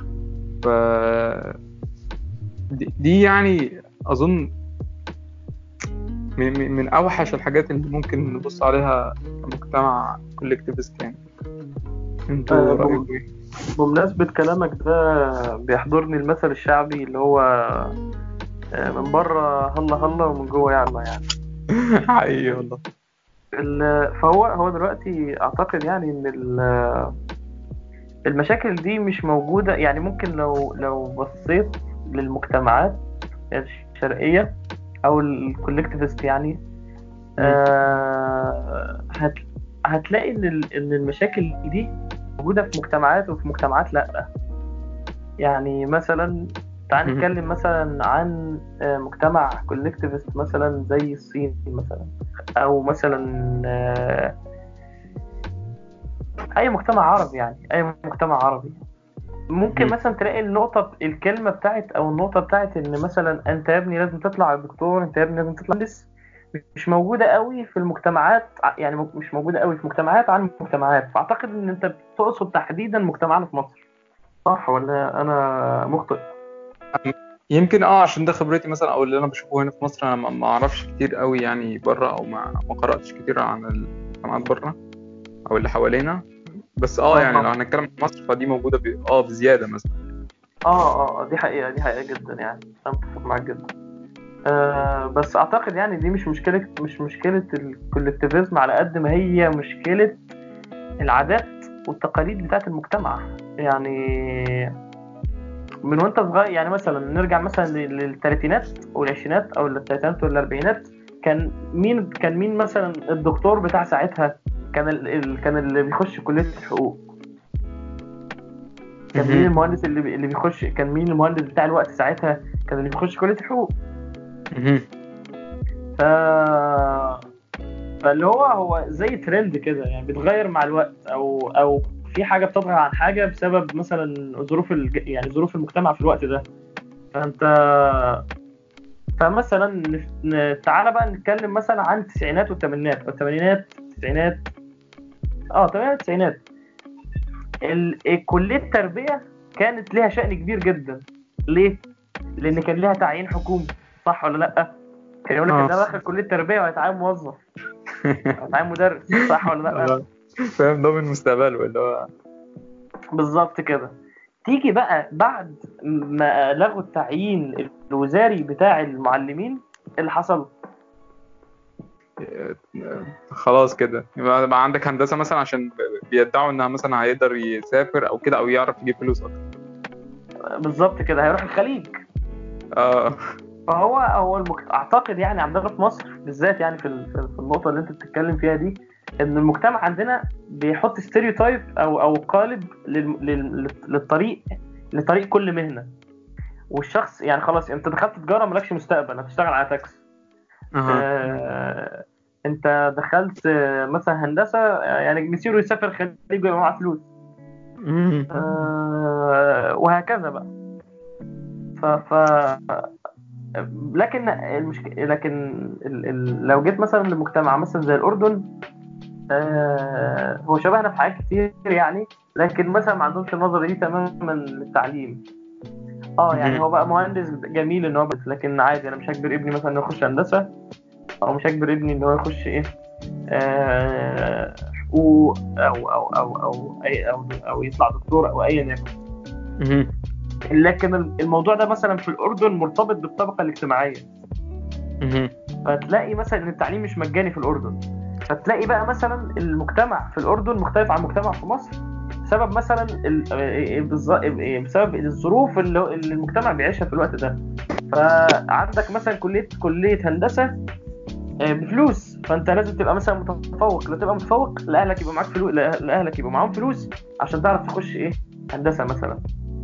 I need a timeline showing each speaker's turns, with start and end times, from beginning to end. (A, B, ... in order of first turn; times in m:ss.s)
0:00.6-0:01.6 A
0:02.7-0:04.5 A
0:06.4-0:11.2 A
0:12.3-0:13.2 A
0:12.5-0:13.1 B
0:13.8-0:17.9 B
0:18.8-0:21.3 B
0:22.1-0:22.8 A
0:23.6-0:27.1 B
0:28.3-0:33.0 B
0:33.5-0:34.5 B
0:35.1-0:36.6 B
0:37.4-0:44.3 B
0:45.4-0:54.3 B
0:56.6-0:58.8 B
0:59.5-1:13.8 B
1:14.5-1:16.3 B
1:17.0-1:24.8 A
1:25.5-1:26.2 A
1:26.8-1:30.0 A
1:27.1-1:27.5 B
1:30.7-1:33.7 B
1:34.5-1:40.2 B
1:41.0-1:44.6 B
1:45.9-1:57.0 B
1:59.1-1:59.5 A
1:59.2-2:03.7 B
2:04.5-2:04.8 A
2:06.0-2:07.2 B
2:08.0-2:16.4 B
2:17.2-2:18.2 B
2:19.2-2:24.5 B
2:25.6-2:26.4 B
2:27.7-2:31.8 B
2:32.4-2:34.7 B
2:35.3-2:37.4 B
2:35.5-2:35.9 A
2:38.0-2:38.4 A
2:38.4-2:40.0 B
2:39.7-2:42.1 A
2:43.2-2:43.9 B
2:44.4-2:50.5 B
2:52.2-2:59.4 A
3:00.6-3:02.0 B
3:02.8-3:03.2 A
3:03.7-3:14.4 B
3:15.0-3:15.9 B
3:16.7-3:20.0 B
3:20.8-3:21.1 A
3:20.9-3:27.1 B
3:27.8-3:28.3 A
3:28.3-3:30.5 B
3:31.8-3:32.9 B
3:34.0-3:38.5 B
3:39.3-3:45.2 B
3:46.2-3:50.5 B
3:46.4-3:46.6 A
3:51.2-3:52.7 B
3:53.3-3:58.9 B
3:59.6-3:59.9 A
4:00.5-4:04.0 B
4:05.0-4:05.3 A
4:05.7-4:20.6 B
4:21.5-4:29.2 B